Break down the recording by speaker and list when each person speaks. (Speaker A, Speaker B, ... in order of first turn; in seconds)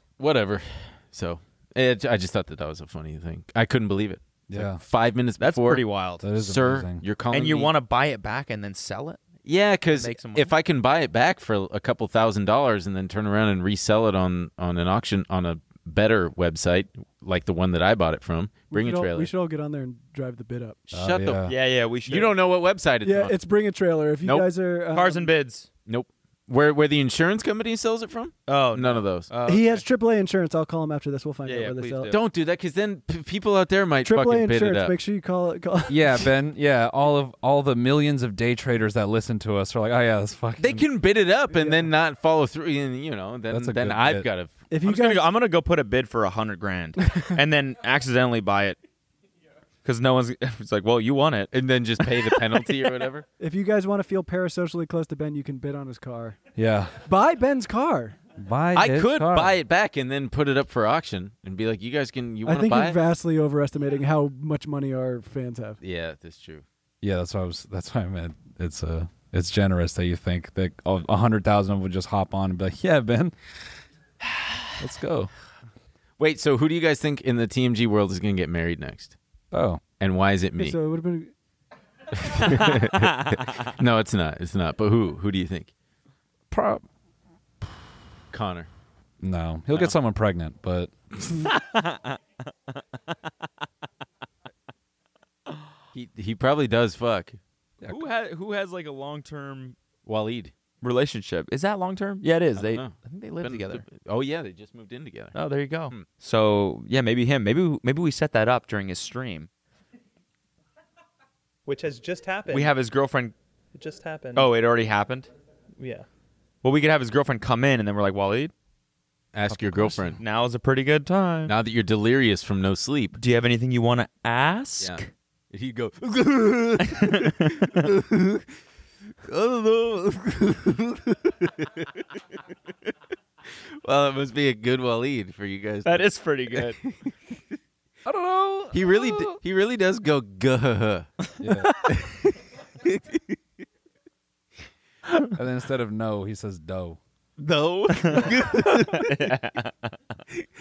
Speaker A: 0.2-5.9, 6.4-7.7, 9.4-19.3, 20.9-21.4, 22.1-23.4, 24.2-24.5, 25.9-29.3, 32.1-34.9, 40.6-44.6, 51.5-53.3, 58.8-63.0, 65.8-66.6, 76.2-79.1, 80.0-80.8, 82.2-85.7, 88.3-88.7, 95.9-97.4, 100.1-100.5, 102.6-105.3, 119.3-120.2, 121.5-123.2, 124.8-128.4, 129.3-132.1, 133.5-137.0, 138.7-141.1, 141.8-143.3, 147.4-149.1
Speaker B: 4.5-4.8, 6.2-7.0, 20.9-21.5, 35.9-40.9, 43.5-44.3, 56.6-57.0, 58.4-59.6, 67.0-73.3, 74.8-75.3, 79.5-79.8, 86.5-86.8, 89.2-90.9, 138.1-139.4, 141.4-141.7, 145.3-147.0
Speaker C: 5.4-6.2, 7.3-9.2, 9.9-10.5, 21.5-22.3, 24.9-25.7, 28.5-29.9, 31.4-32.2, 44.8-48.8, 49.9-52.7, 82.9-83.5, 91.5-92.2, 97.9-99.8, 100.8-103.8, 105.3-109.5, 112.5-113.3, 114.3-115.3, 116.6-118.5, 119.8-121.5, 123.2-125.1, 126.8-127.9, 135.8-136.8, 147.9-149.9
Speaker D: 18.7-20.8, 23.0-25.3, 29.4-32.1, 34.0-36.3, 41.5-41.8, 44.7-45.3, 53.4-56.4, 57.1-58.2, 62.4-65.8, 80.6-81.3
Speaker E: 111.7-112.8, 113.7-114.5, 115.8-116.1